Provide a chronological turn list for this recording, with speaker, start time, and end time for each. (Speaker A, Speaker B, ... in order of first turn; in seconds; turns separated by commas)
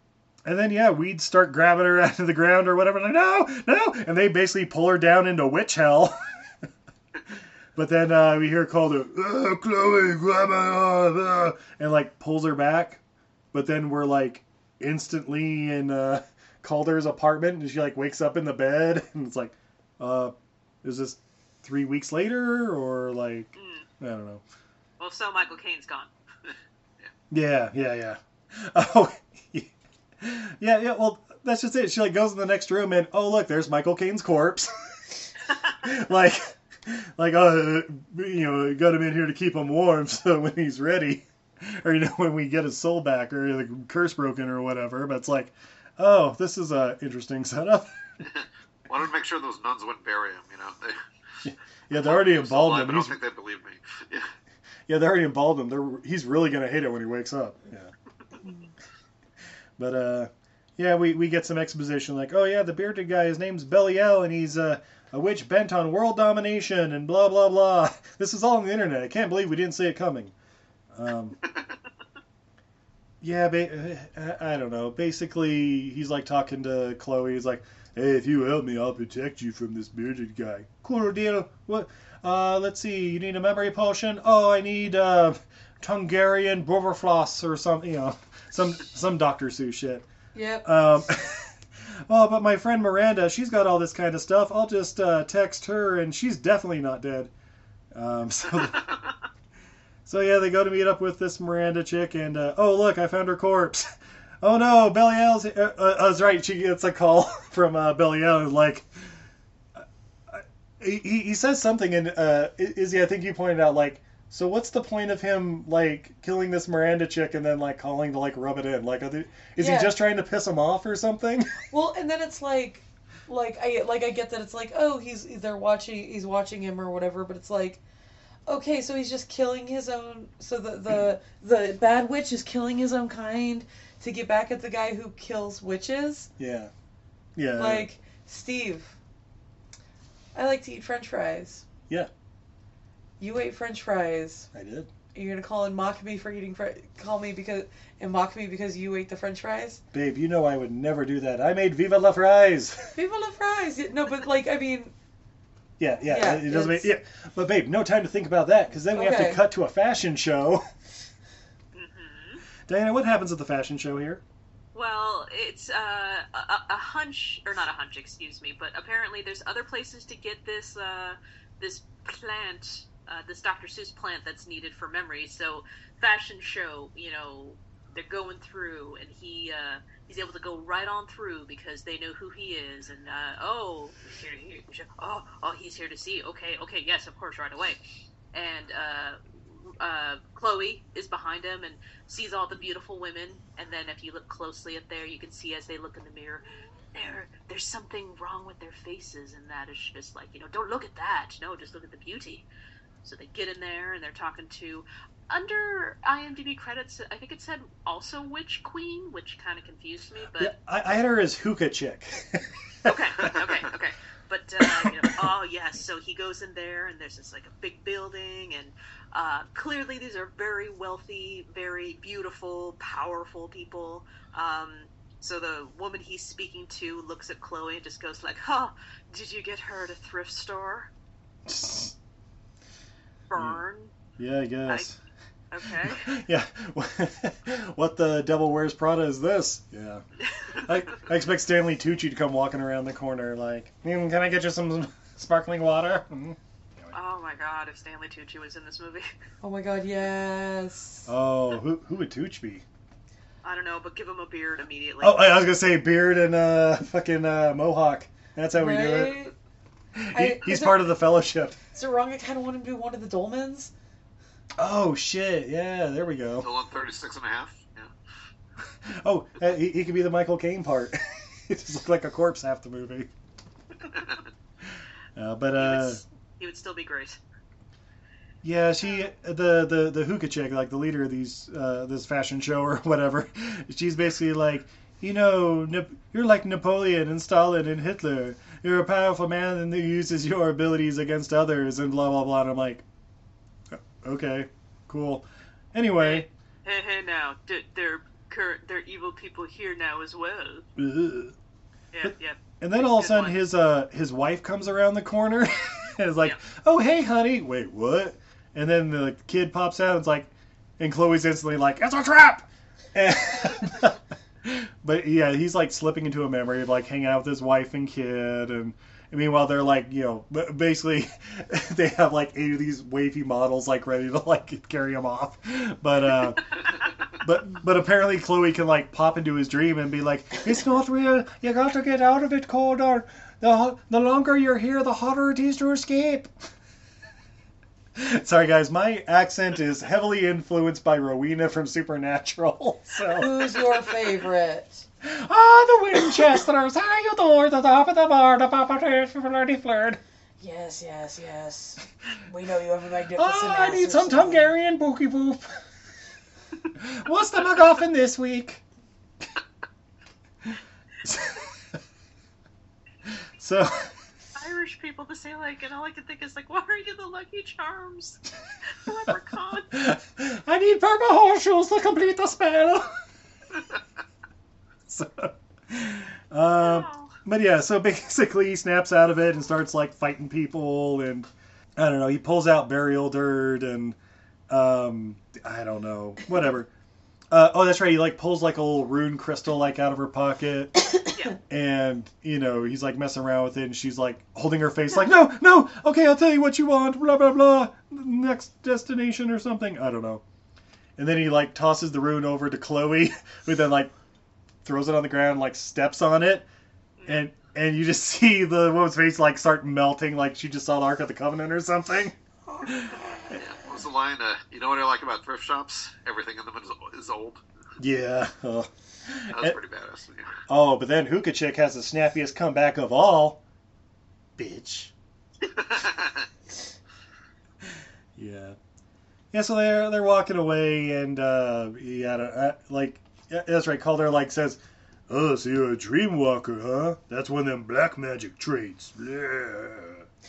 Speaker A: 0.4-6.2, Speaker A: 7.7-13.0, Speaker A: 13.5-24.4, Speaker B: 23.5-23.9, Speaker B: 25.0-26.1, Speaker A: 27.3-35.2, Speaker A: 35.8-48.0, Speaker C: 48.3-51.0, Speaker A: 51.4-53.2, Speaker C: 51.9-54.3, Speaker A: 54.9-57.9, Speaker D: 58.4-58.7, Speaker A: 59.8-70.3, Speaker A: 70.9-71.4, Speaker A: 73.2-90.1, Speaker D: 90.3-90.7, Speaker A: 90.6-97.3, Speaker A: 97.9-98.9, Speaker A: 100.0-109.1, Speaker A: 109.7-121.5, Speaker D: 119.6-119.9, Speaker D: 121.7-127.8, Speaker D: 128.5-136.3, Speaker A: 136.4-136.7, Speaker A: 137.3-137.9, Speaker D: 137.5-139.0, Speaker D: 140.3-141.7, Speaker D: 143.2-144.5, Speaker A: 144.5-144.9, Speaker D: 145.1-149.8, Speaker A: 149.9-152.9, Speaker D: 152.9-154.9, Speaker A: 155.8-160.6, Speaker D: 156.1-156.9, Speaker D: 158.9-159.4, Speaker B: 161.7-162.4, Speaker A: 162.7-164.2, Speaker B: 164.7-187.8, Speaker B: 188.3-202.4, Speaker B: 203.0-210.5, Speaker A: 210.4-213.3, Speaker B: 212.8-230.9, Speaker A: 214.6-215.3, Speaker A: 231.4-231.9, Speaker B: 233.3-233.9, Speaker A: 233.3-233.6, Speaker A: 234.2-235.0, Speaker B: 235.5-236.1, Speaker A: 235.8-240.0, Speaker B: 240.3-240.6, Speaker A: 240.6-246.9, Speaker B: 246.9-249.1, Speaker D: 249.4-251.1, Speaker A: 251.1-252.6, Speaker B: 253.4-255.4, Speaker A: 255.0-259.2, Speaker D: 258.5-259.3, Speaker A: 260.0-261.6, Speaker D: 260.1-261.0, Speaker D: 261.7-263.7, Speaker A: 264.6-266.5, Speaker C: 266.4-267.9, Speaker A: 268.9-273.1, Speaker C: 273.9-274.2, Speaker A: 275.1-276.0, Speaker B: 275.6-277.2, Speaker A: 278.4-292.8, Speaker B: 278.8-279.1, Speaker A: 293.7-296.3, Speaker B: 296.0-300.6, Speaker A: 300.8-301.3, Speaker B: 301.9-303.4, Speaker A: 302.0-326.5, Speaker A: 327.2-336.3, Speaker A: 337.9-343.5, Speaker D: 343.2-344.9, Speaker A: 345.0-350.0, Speaker D: 350.4-354.5, Speaker A: 353.1-355.5, Speaker A: 356.7-358.6, Speaker A: 360.4-361.6, Speaker A: 363.1-363.9, Speaker B: 364.4-368.2, Speaker B: 368.8-369.7, Speaker A: 369.7-372.9, Speaker A: 374.9-384.0, Speaker B: 376.6-377.1, Speaker A: 384.5-386.7, Speaker A: 387.3-390.7, Speaker B: 391.1-391.4, Speaker A: 391.5-400.2, Speaker A: 401.0-403.9, Speaker A: 404.6-406.5, Speaker B: 407.0-407.2, Speaker A: 407.1-412.9, Speaker D: 412.5-413.4, Speaker C: 413.3-417.4, Speaker A: 417.8-419.6, Speaker C: 419.3-420.3, Speaker A: 420.5-423.4, Speaker A: 424.4-424.9, Speaker C: 425.4-426.3, Speaker A: 428.1-428.6, Speaker A: 429.3-440.1